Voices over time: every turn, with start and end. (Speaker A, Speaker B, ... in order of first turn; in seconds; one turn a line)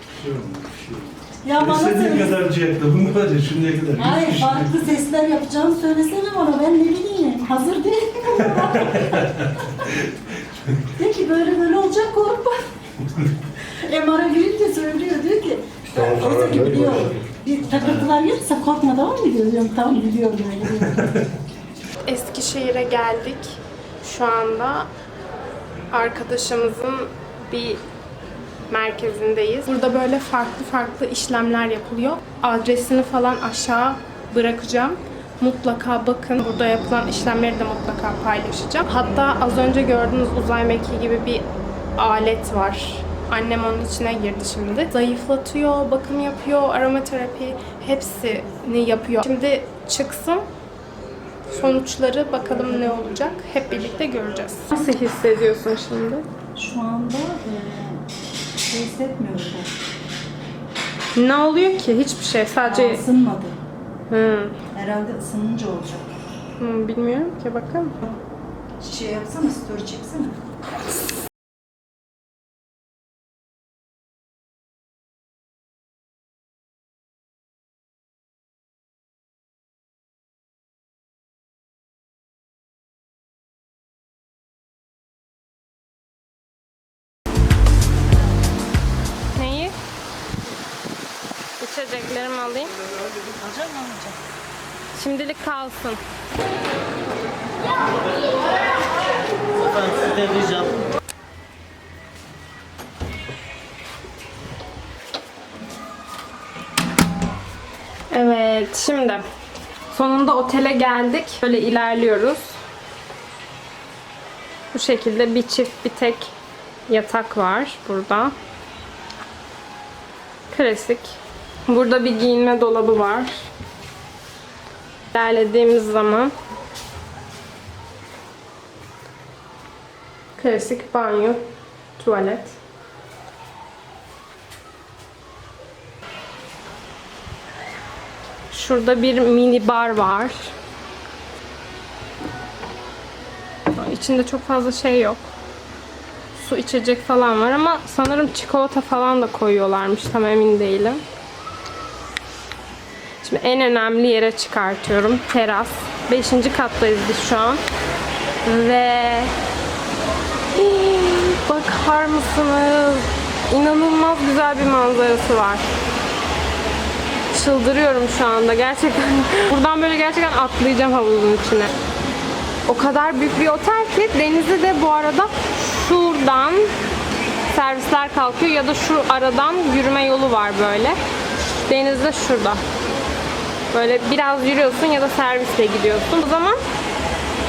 Speaker A: 0.2-4.7
Speaker B: 1.4-2.4
Speaker B: 4.0-9.3
Speaker A: 8.5-9.4
Speaker B: 11.0-12.7
Speaker B: 13.8-21.1
Speaker A: 15.9-18.0
Speaker C: 22.1-24.9
Speaker C: 25.9-27.8
Speaker C: 28.7-41.5
Speaker C: 42.0-50.5
Speaker C: 51.5-56.3
Speaker B: 56.5-58.0
Speaker B: 58.7-59.7
Speaker C: 61.1-63.0
Speaker B: 62.6-63.6
Speaker C: 64.1-64.6
Speaker B: 64.7-66.1
Speaker C: 66.6-68.0
Speaker B: 68.8-70.4
Speaker C: 89.4-89.8
Speaker C: 91.6-92.7
Speaker B: 93.4-94.2
Speaker C: 95.0-96.0
Speaker C: 108.1-109.2
Speaker C: 109.9-112.6
Speaker C: 114.7-116.3
Speaker C: 116.9-118.3
Speaker C: 120.5-123.5
Speaker C: 125.1-126.3
Speaker C: 130.4-131.4
Speaker C: 132.0-132.6
Speaker C: 138.5-140.5
Speaker C: 143.8-145.3
Speaker C: 146.3-151.0
Speaker C: 153.2-157.6
Speaker C: 158.4-159.3
Speaker C: 160.5-165.7
Speaker C: 167.3-171.8
Speaker C: 172.7-176.7
Speaker C: 177.5-181.0
Speaker C: 181.6-182.6
Speaker C: 183.7-186.6